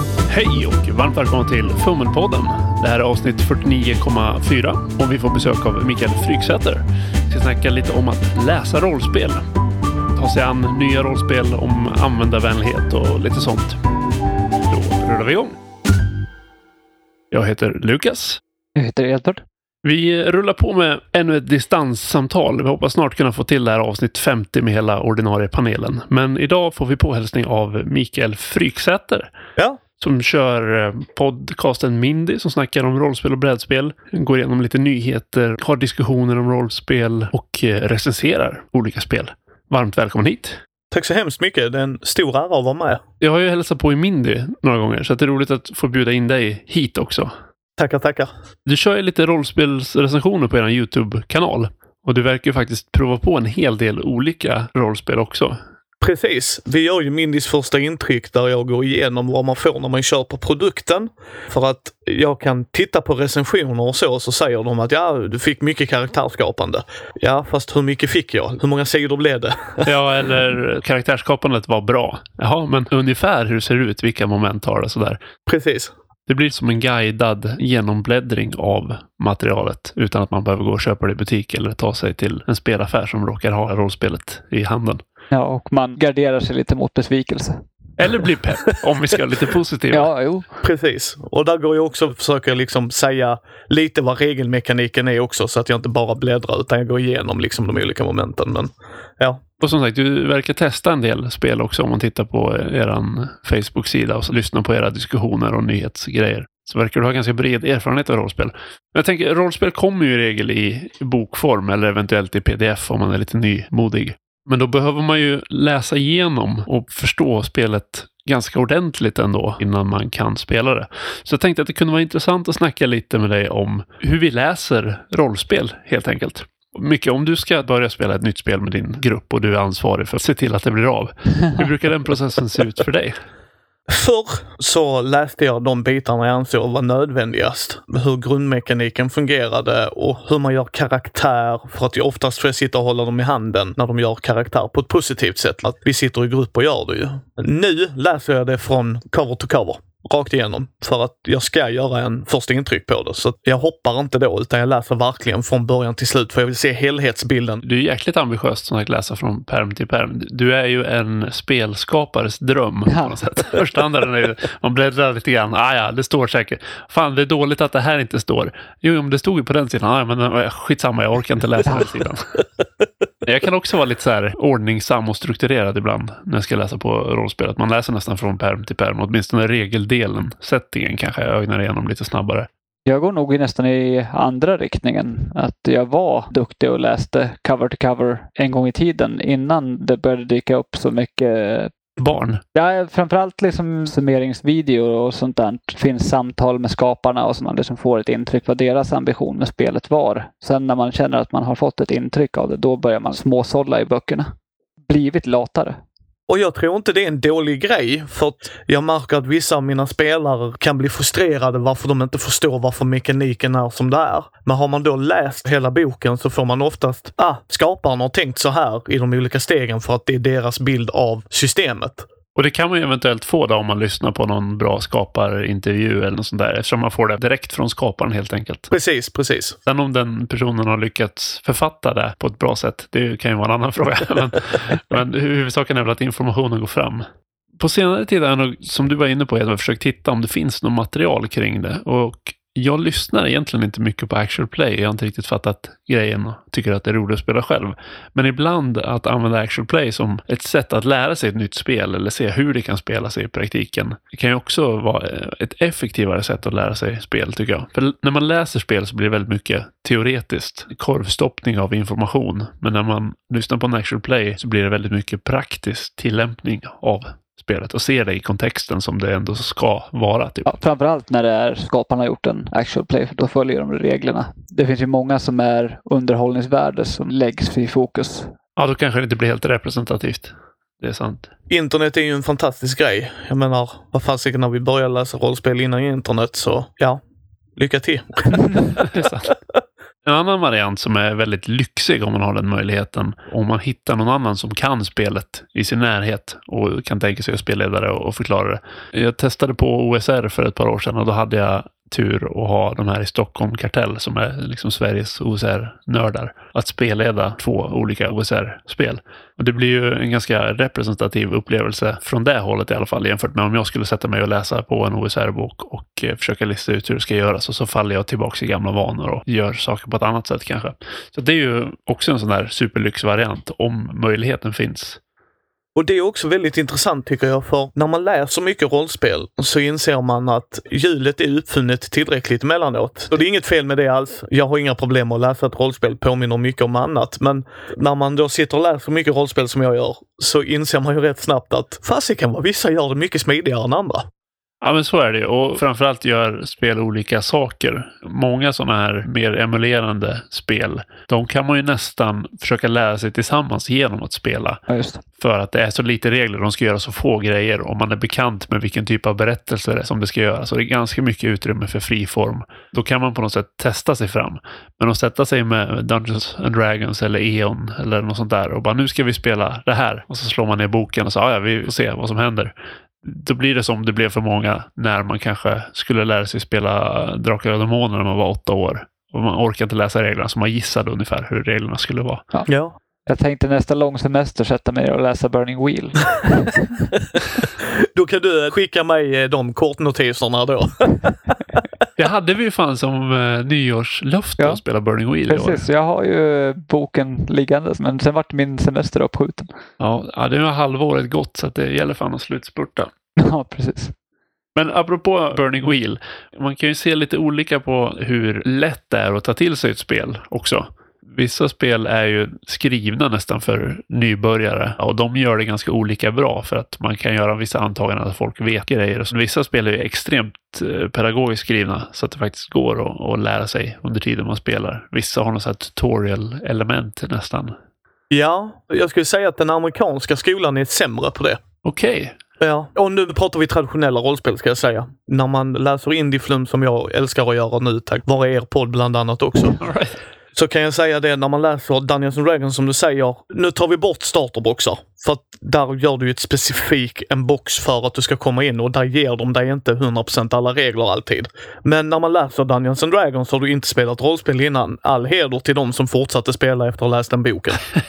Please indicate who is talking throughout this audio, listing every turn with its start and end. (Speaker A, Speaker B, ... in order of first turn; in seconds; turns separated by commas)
Speaker A: 0.3-9.5, Speaker A: 10.1-13.8, Speaker A: 14.7-15.6, Speaker A: 17.3-18.4, Speaker B: 18.8-19.4, Speaker A: 19.8-29.3, Speaker A: 30.0-40.6, Speaker C: 40.9-43.0, Speaker A: 43.2-47.3, Speaker C: 47.8-48.3, Speaker A: 48.7-55.6, Speaker C: 56.0-69.9, Speaker A: 69.8-75.2, Speaker C: 75.5-75.9, Speaker A: 76.3-85.0, Speaker B: 85.3-87.6, Speaker A: 88.0-90.1, Speaker B: 89.9-90.5, Speaker C: 90.6-99.4, Speaker A: 99.6-133.2, Speaker C: 133.9-157.6, Speaker A: 157.7-172.4, Speaker B: 162.9-163.2, Speaker A: 173.2-182.5, Speaker B: 182.9-191.7, Speaker A: 192.0-192.4, Speaker B: 192.5-204.3, Speaker B: 204.9-205.8, Speaker C: 206.3-222.1, Speaker A: 222.4-228.7, Speaker C: 228.7-229.6, Speaker A: 229.7-237.1, Speaker A: 237.6-270.5, Speaker B: 270.5-278.3, Speaker A: 278.6-281.3, Speaker C: 281.5-287.0, Speaker C: 287.6-289.1, Speaker A: 288.8-289.3, Speaker A: 290.1-325.0, Speaker C: 325.8-344.1, Speaker A: 344.6-354.6, Speaker B: 354.7-355.0, Speaker A: 355.2-382.3, Speaker C: 382.5-382.8, Speaker B: 383.1-386.7, Speaker C: 387.6-391.8, Speaker A: 392.0-395.6, Speaker B: 395.3-399.5, Speaker A: 399.8-402.9, Speaker B: 403.2-403.9, Speaker A: 404.6-427.6, Speaker C: 428.1-431.4, Speaker A: 431.6-432.2, Speaker C: 432.4-439.6, Speaker A: 439.6-440.0, Speaker C: 440.4-457.6